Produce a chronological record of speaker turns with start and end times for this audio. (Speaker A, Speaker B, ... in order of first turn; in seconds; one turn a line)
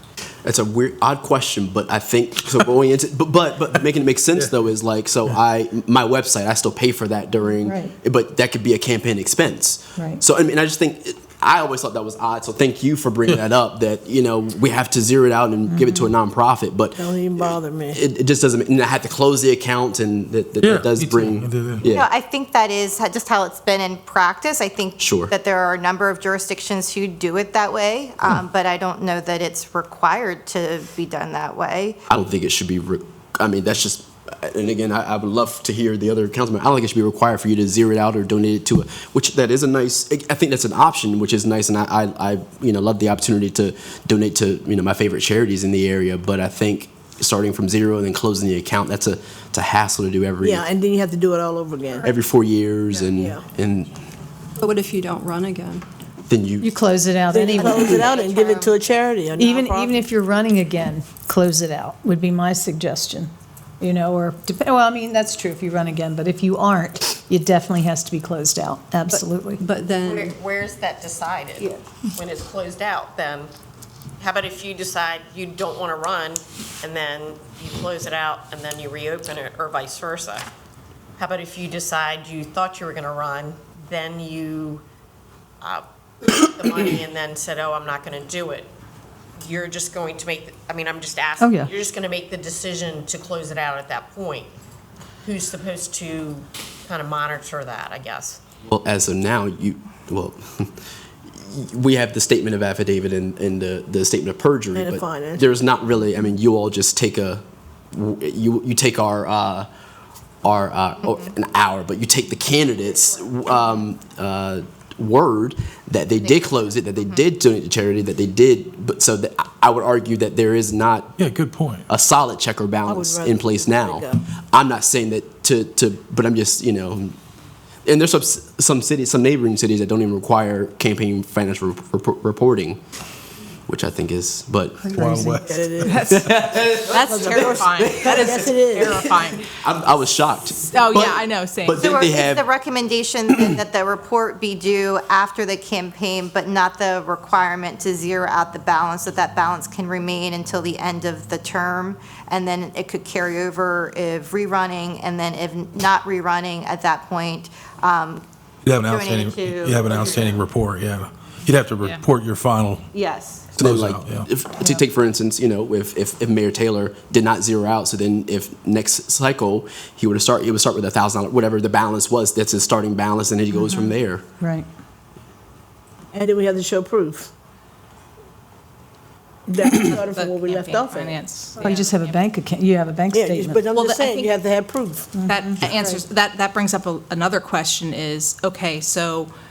Speaker A: 0.5-22.1
Speaker B: 7.6-7.9
Speaker B: 10.0-10.2
Speaker B: 15.7-16.1
Speaker C: 17.0-18.0
Speaker D: 20.6-21.9
Speaker E: 21.9-32.0
Speaker A: 25.0-25.3
Speaker A: 32.1-50.7
Speaker C: 50.4-52.1
Speaker A: 52.0-53.9
Speaker C: 53.0-53.4
Speaker F: 54.6-55.9
Speaker A: 56.3-56.7
Speaker B: 56.6-58.1
Speaker C: 57.3-60.0
Speaker E: 57.9-58.7
Speaker B: 59.4-69.6
Speaker F: 69.1-70.2
Speaker G: 69.9-73.5
Speaker G: 74.2-80.5
Speaker G: 81.2-84.8
Speaker G: 85.6-88.7
Speaker G: 89.4-94.5
Speaker B: 91.4-91.7
Speaker G: 95.2-98.4
Speaker A: 98.7-100.7
Speaker A: 101.3-109.7
Speaker C: 104.8-105.5
Speaker A: 110.4-121.1
Speaker D: 121.2-121.8
Speaker A: 121.9-127.2
Speaker C: 122.9-124.2
Speaker A: 127.8-132.8
Speaker A: 133.7-134.8
Speaker B: 134.8-135.4
Speaker D: 134.9-136.2
Speaker C: 135.4-136.0
Speaker H: 135.8-139.5
Speaker A: 136.1-138.3
Speaker C: 137.0-139.1
Speaker A: 139.6-142.5
Speaker H: 140.7-141.8
Speaker E: 141.8-158.2
Speaker D: 158.7-162.9
Speaker E: 158.8-160.4
Speaker E: 162.9-163.5
Speaker D: 163.6-164.3
Speaker A: 163.6-174.2
Speaker B: 173.5-174.7
Speaker C: 176.1-177.3
Speaker C: 179.5-181.2
Speaker H: 179.6-182.2
Speaker B: 181.6-183.6
Speaker C: 183.1-186.0
Speaker H: 183.8-184.3
Speaker B: 185.2-185.6
Speaker H: 185.3-189.3